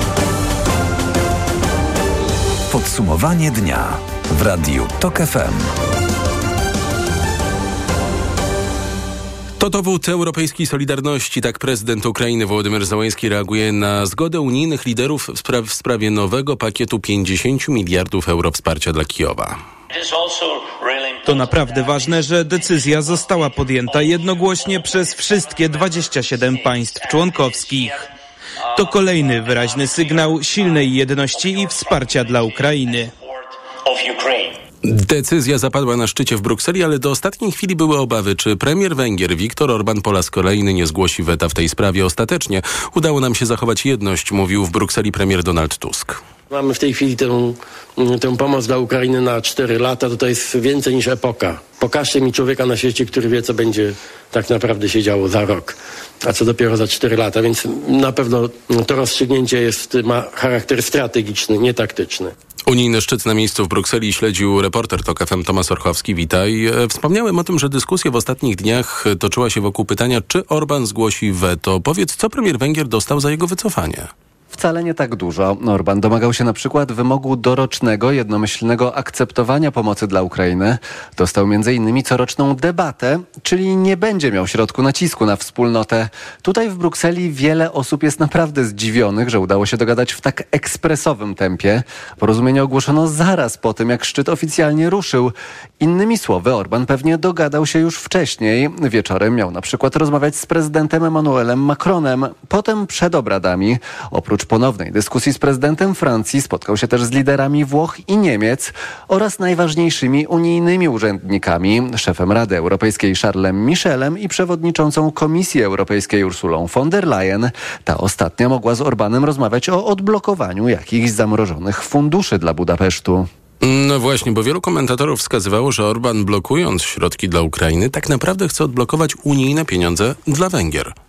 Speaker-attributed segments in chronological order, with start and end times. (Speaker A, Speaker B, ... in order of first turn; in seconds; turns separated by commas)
Speaker A: 2.7-5.6, Speaker B: 9.6-19.6, Speaker C: 21.2-28.1, Speaker C: 28.7-33.1, Speaker B: 34.9-46.2, Speaker D: 46.5-62.3, Speaker B: 62.7-74.1, Speaker E: 74.5-123.3, Speaker B: 123.6-130.9